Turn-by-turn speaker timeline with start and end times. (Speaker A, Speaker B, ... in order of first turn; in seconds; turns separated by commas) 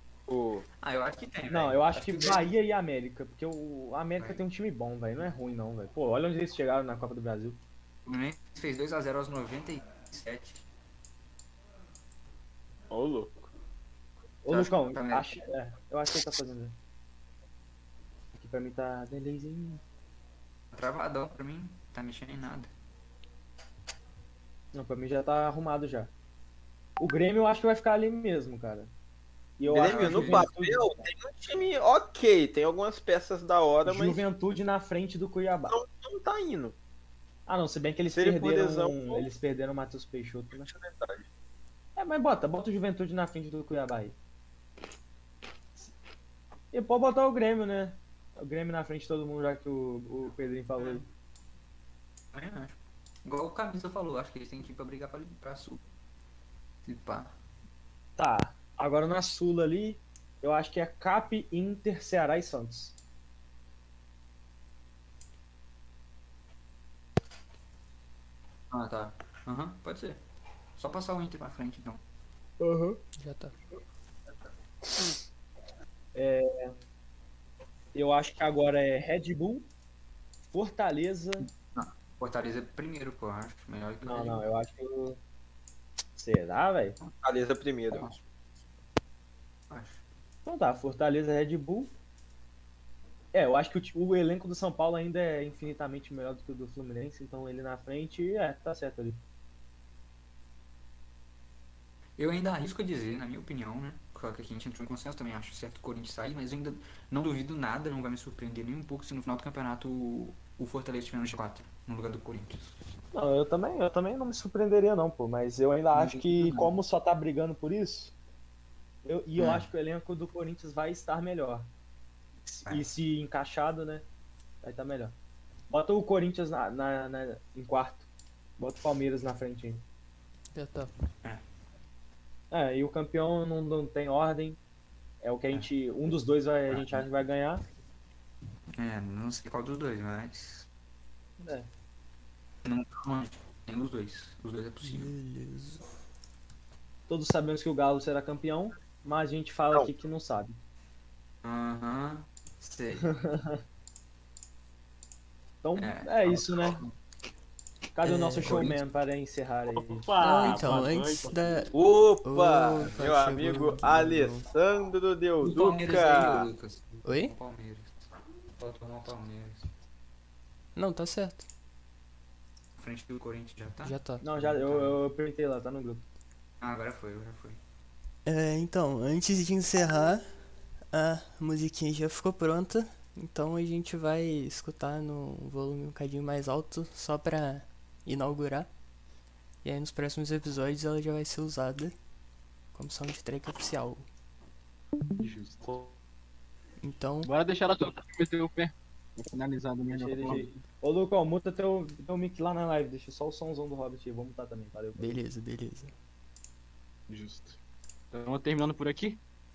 Speaker A: 0.3-0.7, Speaker B: 0.8-2.5, Speaker C: 1.5-7.6, Speaker B: 4.2-4.4, Speaker B: 8.0-10.6, Speaker A: 12.9-13.3, Speaker C: 14.4-16.7, Speaker B: 14.5-15.3, Speaker C: 18.4-19.8, Speaker B: 20.7-22.7, Speaker C: 24.7-26.1, Speaker C: 27.0-28.9, Speaker C: 29.6-31.0, Speaker A: 29.7-34.2, Speaker B: 29.7-30.5, Speaker C: 33.8-35.8, Speaker A: 35.7-36.8, Speaker C: 37.5-40.7, Speaker A: 38.1-39.3, Speaker A: 40.6-41.2, Speaker C: 42.0-44.1, Speaker C: 46.7-51.0, Speaker B: 50.8-51.0, Speaker B: 52.3-55.8, Speaker B: 56.8-57.3, Speaker C: 58.2-63.0, Speaker B: 68.7-70.2, Speaker B: 70.8-72.0, Speaker C: 72.6-73.0, Speaker D: 73.2-73.5, Speaker C: 76.1-76.7, Speaker C: 77.9-79.7, Speaker C: 80.5-81.5, Speaker B: 81.7-84.4, Speaker C: 84.0-85.2, Speaker C: 86.2-87.0, Speaker A: 87.2-88.1, Speaker B: 87.9-88.2, Speaker B: 89.7-90.0, Speaker C: 90.4-91.9, Speaker C: 93.3-99.2, Speaker B: 102.2-112.7, Speaker C: 113.1-118.1, Speaker B: 115.9-116.7, Speaker C: 119.0-121.7, Speaker B: 119.4-119.7, Speaker C: 122.6-124.0, Speaker B: 122.6-122.9, Speaker C: 124.6-125.1, Speaker C: 125.7-128.1, Speaker C: 128.6-129.8, Speaker D: 130.5-130.9, Speaker C: 132.5-134.6, Speaker C: 135.2-137.6, Speaker B: 136.7-137.1, Speaker B: 138.7-140.7, Speaker C: 141.4-141.7, Speaker B: 142.6-145.1, Speaker D: 144.8-145.8, Speaker C: 147.1-150.6, Speaker B: 151.4-153.2, Speaker C: 153.0-153.6, Speaker C: 155.6-156.8, Speaker B: 155.8-156.9, Speaker C: 157.9-161.3, Speaker B: 158.0-158.8, Speaker D: 160.2-164.4, Speaker A: 161.7-166.5, Speaker B: 165.4-169.7, Speaker D: 167.0-167.3, Speaker D: 170.7-171.5, Speaker B: 172.8-175.0, Speaker D: 173.8-174.2, Speaker C: 174.2-176.0, Speaker B: 176.6-177.6, Speaker D: 178.2-188.8, Speaker D: 189.6-192.1, Speaker D: 192.7-194.1, Speaker E: 195.2-195.9, Speaker D: 196.8-197.3, Speaker E: 197.2-200.6, Speaker C: 199.9-205.2, Speaker D: 204.9-205.9, Speaker E: 207.1-207.6, Speaker E: 208.1-209.2